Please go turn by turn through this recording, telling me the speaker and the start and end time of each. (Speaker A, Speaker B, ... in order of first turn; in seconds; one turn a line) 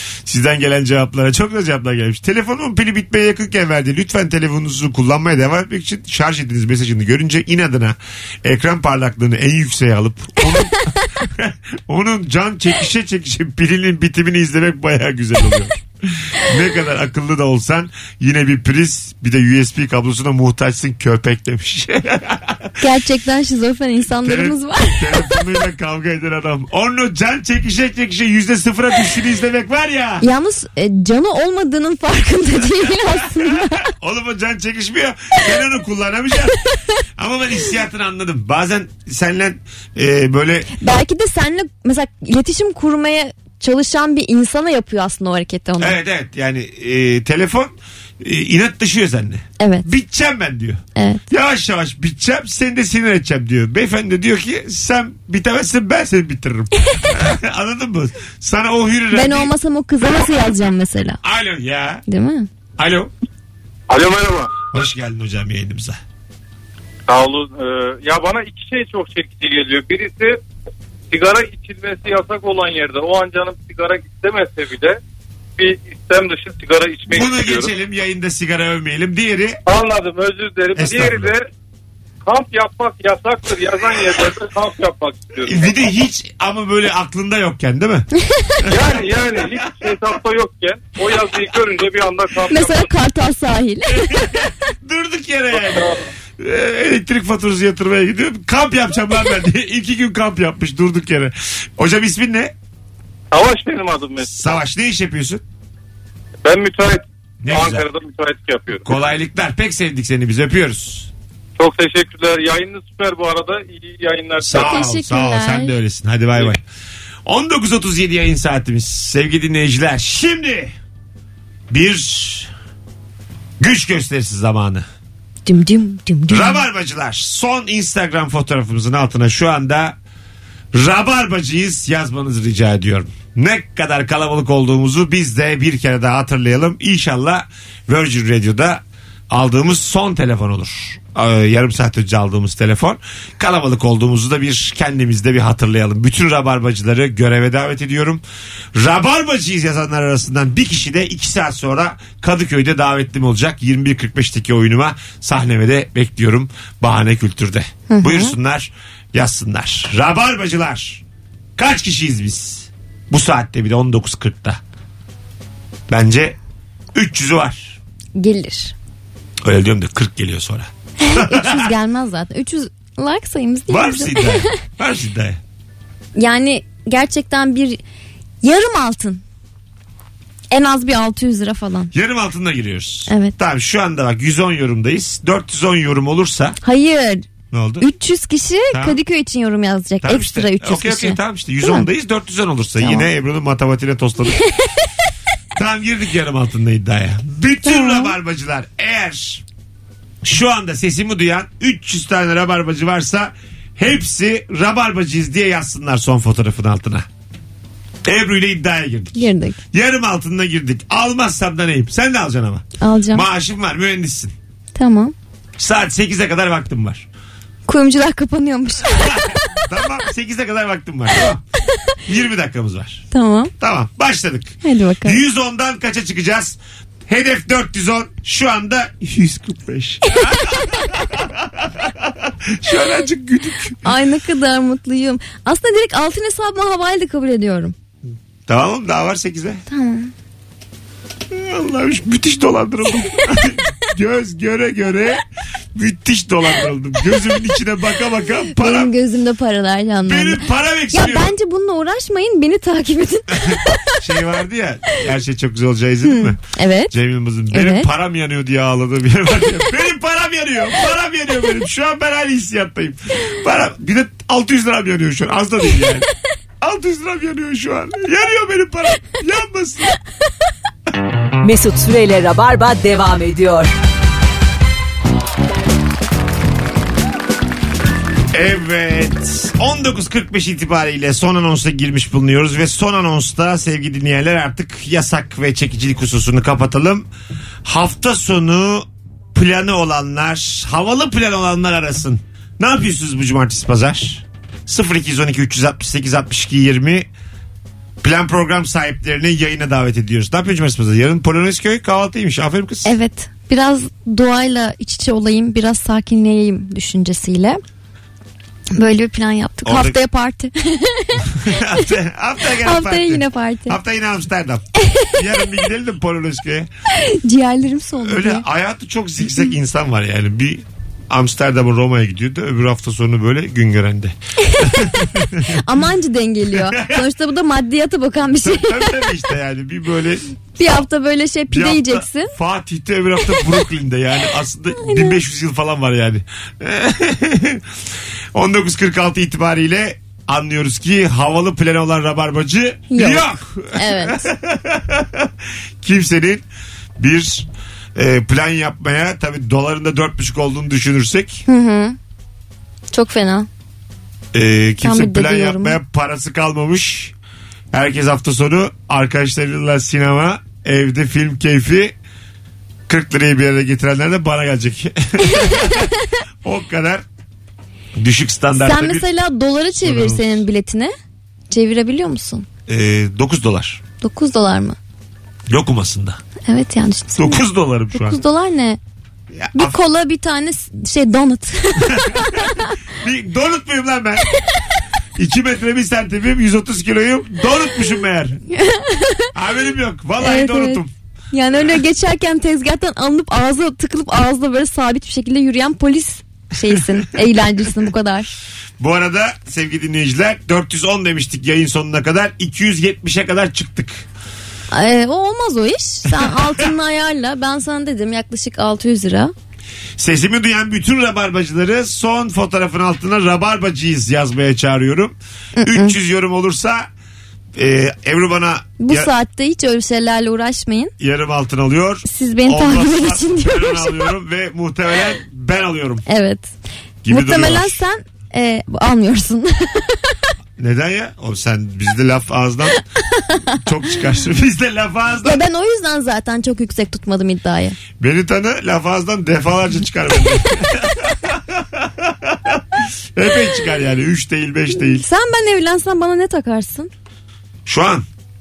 Speaker A: 0.2-22.8
Speaker B: 22.8-25.4
Speaker A: 24.2-30.2
Speaker B: 30.2-33.9
Speaker A: 33.9-36.6
Speaker A: 37.1-40.7
Speaker B: 40.8-46.0
Speaker A: 45.8-59.5
Speaker B: 49.6-49.9
Speaker B: 51.0-51.2
Speaker B: 59.1-61.2
Speaker A: 61.2-62.0
Speaker B: 62.1-62.5
Speaker A: 62.8-63.1
Speaker C: 63.9-64.5
Speaker A: 64.7-66.0
Speaker C: 67.1-70.4
Speaker C: 71.1-75.0
Speaker C: 75.6-77.7
Speaker A: 77.1-79.6
Speaker C: 79.7-81.4
Speaker A: 80.8-81.3
Speaker C: 82.2-85.7
Speaker A: 85.5-88.1
Speaker A: 88.6-90.0
Speaker C: 88.7-92.9
Speaker B: 92.5-94.5
Speaker A: 94.1-102.5
Speaker C: 95.6-96.0
Speaker C: 103.3-104.6
Speaker A: 104.2-105.4
Speaker C: 106.5-108.9
Speaker A: 107.4-107.9
Speaker A: 108.8-111.1
Speaker C: 111.6-114.9
Speaker A: 114.4-116.6
Speaker B: 114.5-115.7
Speaker A: 117.2-120.7
Speaker A: 121.7-122.5
Speaker A: 123.6-124.9
Speaker B: 125.5-126.6
Speaker A: 126.3-130.0
Speaker A: 130.7-148.2
Speaker A: 148.7-161.0
Speaker B: 157.9-158.3
Speaker A: 161.6-164.6
Speaker A: 165.9-166.4
Speaker A: 166.9-167.8
Speaker B: 168.2-168.8
Speaker A: 169.4-171.7
Speaker B: 171.0-174.6
Speaker A: 173.7-175.4
Speaker B: 176.2-177.8
Speaker B: 178.4-179.2
Speaker B: 180.5-181.9
Speaker A: 181.9-186.6
Speaker B: 183.1-183.3
Speaker B: 186.6-187.2
Speaker A: 187.5-187.9
Speaker B: 187.8-191.9
Speaker A: 188.7-189.0
Speaker A: 190.0-194.4
Speaker B: 192.8-193.1
Speaker A: 195.6-199.4
Speaker B: 197.6-198.2
Speaker A: 200.2-207.1
Speaker A: 208.1-214.3
Speaker B: 209.2-209.6
Speaker B: 212.8-213.3
Speaker B: 214.8-215.1
Speaker A: 215.6-217.1
Speaker B: 217.7-219.6
Speaker A: 218.9-221.4
Speaker A: 222.1-223.0
Speaker B: 223.1-223.5
Speaker A: 223.6-233.9
Speaker B: 224.6-225.2
Speaker B: 230.1-230.9
Speaker B: 233.8-237.8
Speaker A: 238.5-239.6
Speaker B: 239.7-240.1
Speaker A: 241.3-245.2
Speaker A: 245.8-248.9
Speaker B: 248.5-254.0
Speaker A: 250.1-251.3
Speaker A: 253.3-256.4
Speaker B: 256.1-256.9
Speaker A: 256.9-266.1
Speaker B: 257.5-257.9
Speaker A: 266.6-269.9
Speaker D: 271.4-273.7
Speaker A: 278.3-287.1
Speaker A: 287.6-297.1
Speaker A: 298.0-302.9
Speaker B: 302.9-307.6
Speaker B: 308.8-311.9
Speaker A: 309.6-310.0
Speaker A: 311.3-316.7
Speaker B: 312.6-313.8
Speaker B: 317.0-318.4
Speaker A: 318.0-325.6
Speaker B: 324.5-329.1
Speaker A: 326.5-327.0
Speaker A: 328.2-330.8
Speaker B: 330.6-332.3
Speaker A: 331.5-337.6
Speaker B: 334.8-335.2
Speaker A: 338.3-346.4
Speaker B: 342.9-344.3
Speaker A: 347.0-351.4
Speaker B: 351.5-352.0
Speaker B: 352.9-353.5
Speaker A: 354.3-357.1
Speaker B: 354.8-355.8
Speaker A: 357.7-362.0
Speaker A: 362.9-365.9
Speaker B: 365.4-365.9
Speaker A: 366.4-367.0
Speaker A: 367.9-369.1
Speaker B: 368.6-370.9
Speaker A: 369.8-370.4
Speaker B: 371.5-372.5
Speaker A: 372.7-373.8
Speaker B: 374.0-374.8
Speaker A: 375.5-376.2
Speaker B: 376.5-378.8
Speaker A: 377.2-378.2
Speaker A: 379.3-379.8
Speaker B: 379.6-382.7
Speaker A: 381.8-384.3
Speaker A: 385.2-388.4
Speaker B: 388.5-389.3
Speaker A: 389.4-390.9
Speaker B: 390.2-398.3
Speaker A: 398.8-404.1
Speaker B: 404.7-409.3
Speaker A: 406.1-406.7
Speaker A: 410.0-416.9
Speaker B: 415.6-416.0
Speaker A: 417.6-419.1
Speaker B: 418.8-420.9
Speaker A: 421.0-426.0
Speaker B: 422.1-424.1
Speaker B: 426.1-426.5
Speaker A: 427.0-427.8
Speaker B: 427.1-430.1
Speaker A: 430.6-432.8
Speaker B: 432.7-433.5
Speaker A: 433.6-435.4
Speaker B: 435.2-437.8
Speaker A: 438.0-445.1
Speaker B: 444.8-446.9
Speaker A: 447.6-448.1